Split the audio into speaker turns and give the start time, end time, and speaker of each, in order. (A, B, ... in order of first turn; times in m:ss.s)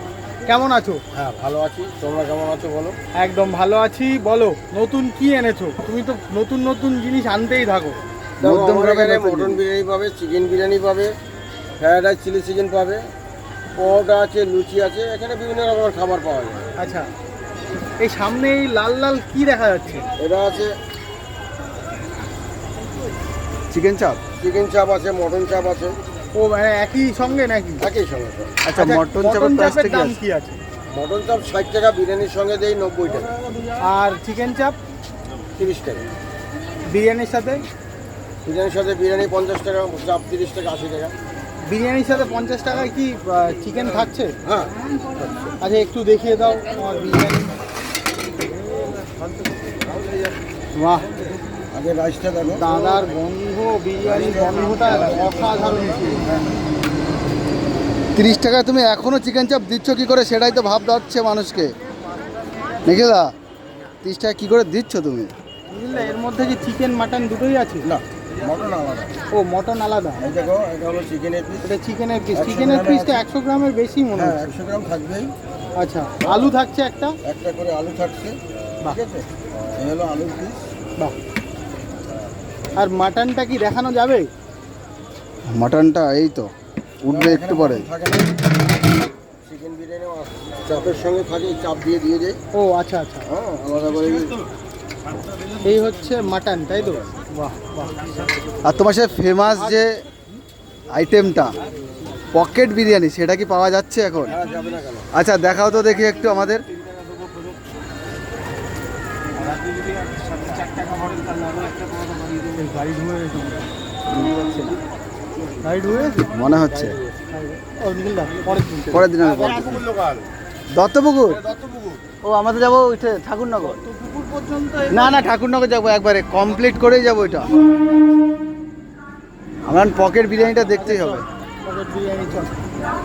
0:00.4-0:01.0 A
0:01.1-0:03.0 B
0:03.1-0:08.0 A
0:08.4-0:11.1 B
0:08.4-0:09.6 C
0:11.8-0:13.0 B
0:13.8-0:16.7 B
0:16.8-0:17.1 A
0:18.0-0:20.0 A
0:20.2-0:20.7 B
0:23.7-0:24.2 C
0:24.4-0:26.0 B
0:26.3-0:27.8 A
0:27.8-0:28.6 B
0:28.6-0:30.2 C
0:28.7-0:30.6 A
0:30.9-0:33.3 B
0:33.8-0:34.8 A
0:35.6-0:36.0 B
0:36.9-0:37.6 A
0:38.4-0:41.1 B
0:41.7-0:44.3 A
0:44.4-0:44.7 B
0:45.6-0:47.6 A
0:50.8-0:51.1 A
0:51.7-0:53.0 B
0:52.5-0:56.2 A
0:54.0-0:56.4 B
0:58.1-1:01.7 C
1:02.8-1:03.3 C
1:04.0-1:05.3 C
1:05.7-1:07.8 A
1:07.9-1:09.1 B
1:09.3-1:10.2 A
1:10.2-1:11.7 B
1:11.6-1:14.4 A
1:12.3-1:13.2 B
1:14.1-1:15.3 B
1:15.8-1:17.2 A
1:16.2-1:16.5 B
1:17.2-1:20.6 B
1:22.8-1:24.3 A
1:25.5-1:26.5 C
1:27.0-1:27.9 C
1:27.1-1:28.4 B
1:29.4-1:32.4 B
1:32.5-1:33.3 A
1:33.3-1:34.4 B
1:35.6-1:38.3 A
1:38.6-1:40.0 C
1:39.5-1:39.8 A
1:40.9-1:41.5 C
1:42.3-1:44.4 C
1:44.3-1:45.1 B
1:45.1-1:46.6 C
1:50.4-1:51.9 B
1:52.4-1:53.7 A
1:54.1-1:54.8 C
1:55.6-1:56.3 A
1:56.3-1:57.0 C
1:56.6-1:57.1 B
1:57.3-1:59.1 A
1:58.9-1:59.9 C
1:59.2-2:00.2 B
2:00.7-2:01.4 C
2:01.4-2:02.0 B
2:02.2-2:03.8 C
2:04.0-2:04.7 B
2:04.7-2:05.2 A
2:04.9-2:07.5 C
2:09.7-2:11.2 C
2:10.5-2:12.5 A